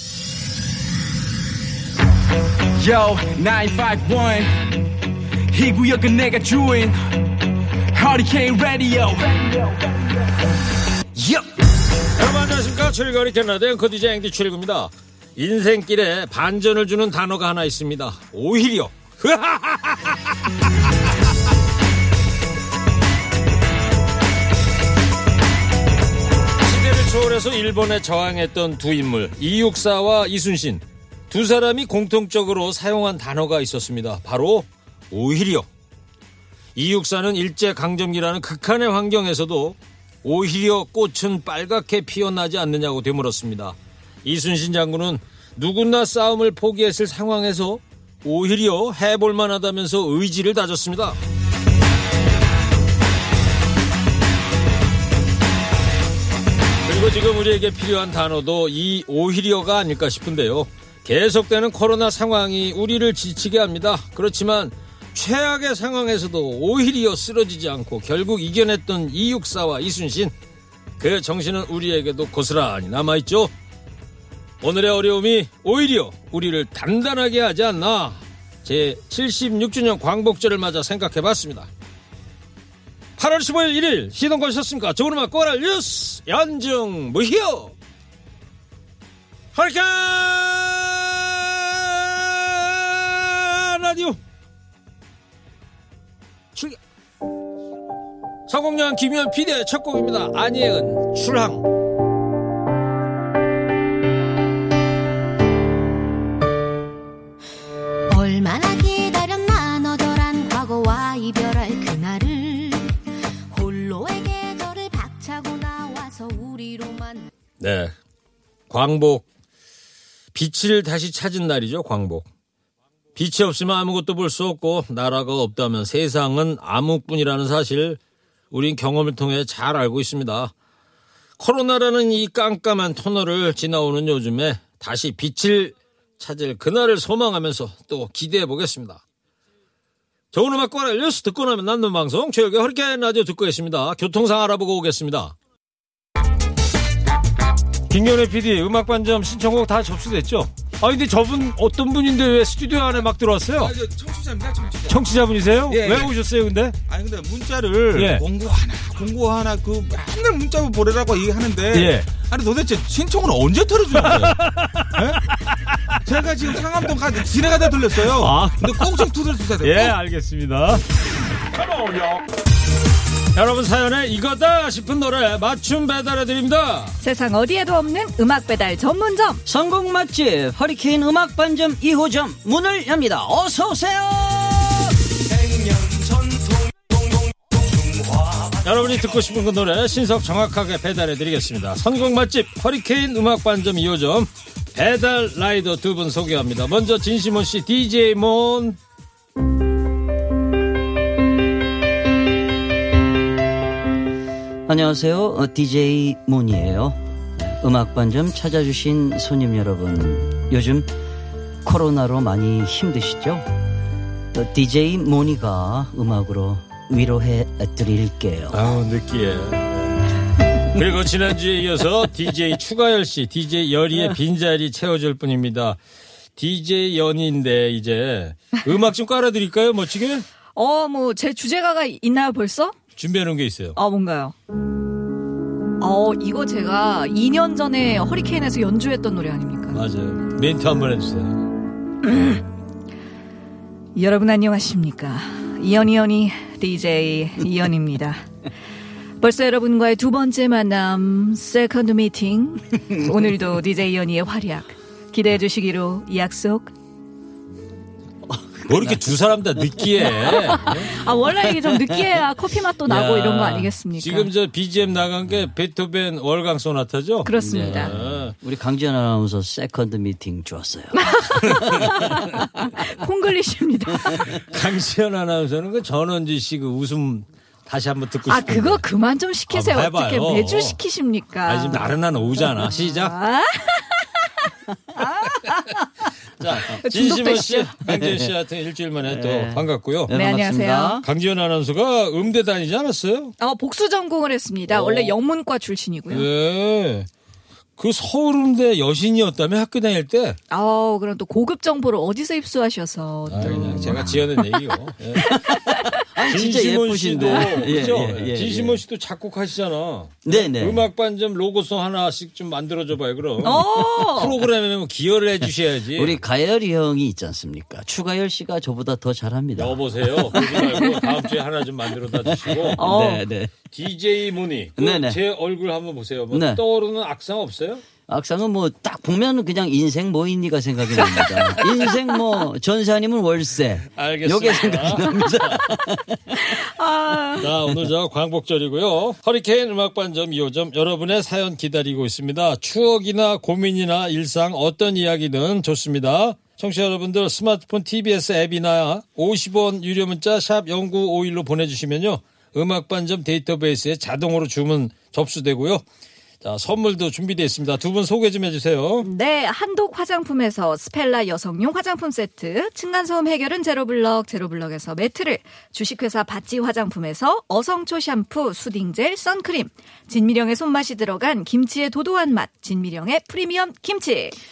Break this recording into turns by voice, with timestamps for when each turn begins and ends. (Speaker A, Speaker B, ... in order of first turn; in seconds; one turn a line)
Speaker A: 2.7-4.9
Speaker A: 5.5-10.4
Speaker A: 11.1-11.5
Speaker B: 12.2-20.3
Speaker B: 26.6-35.7
Speaker B: 36.8-51.2
Speaker B: 56.8-70.3
Speaker B: 71.0-73.5
Speaker B: 74.6-81.7
Speaker B: 83.2-87.7
Speaker B: 89.5-94.2
Speaker B: 98.5-101.6
Speaker C: 108.1-113.0
Speaker C: 113.5-117.3
Speaker B: 117.6-117.9
Speaker B: 118.7-119.2
Speaker B: 120.3-122.2
Speaker B: 123.2-128.0
Speaker B: 128.5-130.5
Speaker B: 131.4-139.0
Speaker B: 140.3-145.3
Speaker B: 147.9-153.7
Speaker D: 153.6-156.1
Speaker B: 154.9-156.8
Speaker D: 156.9-164.4
Speaker B: 157.9-158.2
Speaker B: 161.7-162.1
Speaker B: 163.9-166.6
Speaker D: 164.9-165.3
Speaker D: 166.0-169.9
Speaker B: 167.9-170.8
Speaker D: 171.5-172.2
Speaker B: 173.3-177.0
Speaker E: 177.0-179.4
Speaker F: 179.4-185.0
Speaker A: 185.3-186.8
Speaker A: 188.0-188.5
Speaker B: 188.6-198.8
Speaker F: 204.7-210.9
Speaker F: 211.6-213.5
Speaker F: 214.3-218.7
Speaker B: 218.5-225.8
Speaker B: 226.4-230.2
Speaker E: 230.5-232.8
Speaker B: 233.0-233.8
Speaker E: 233.8-234.3
Speaker E: 235.8-239.8
Speaker B: 239.7-241.5
Speaker E: 242.0-242.4
Speaker E: 243.9-248.2
Speaker E: 249.2-256.7
Speaker F: 258.3-259.0
Speaker B: 258.7-260.9
Speaker E: 260.2-264.3
Speaker B: 262.9-268.3
Speaker E: 267.2-267.9
Speaker F: 267.4-271.8
Speaker E: 270.9-274.3
Speaker B: 271.6-272.2
Speaker B: 274.1-278.8
Speaker E: 278.3-281.9
Speaker B: 279.5-280.8
Speaker B: 281.4-283.1
Speaker E: 282.6-284.2
Speaker E: 284.9-285.4
Speaker B: 286.4-290.1
Speaker E: 286.7-287.7
Speaker F: 287.9-288.3
Speaker F: 289.1-291.1
Speaker E: 290.1-291.0
Speaker B: 291.0-293.3
Speaker E: 293.4-296.3
Speaker B: 294.7-295.1
Speaker B: 296.1-297.1
Speaker B: 297.8-300.4
Speaker E: 300.5-304.4
Speaker B: 303.3-305.3
Speaker F: 303.4-304.2
Speaker E: 305.2-306.0
Speaker F: 305.5-308.8
Speaker B: 306.2-316.2
Speaker F: 310.2-310.8
Speaker E: 313.4-314.4
Speaker F: 315.9-321.1
Speaker B: 319.6-322.9
Speaker F: 322.1-323.5
Speaker E: 322.8-323.2
Speaker B: 323.7-327.8
Speaker F: 324.8-325.2
Speaker F: 326.3-326.6
Speaker F: 328.1-336.4
Speaker B: 331.2-331.6
Speaker B: 333.9-335.6
Speaker E: 336.4-337.5
Speaker B: 337.4-355.8
Speaker B: 356.4-359.1
Speaker E: 359.0-374.4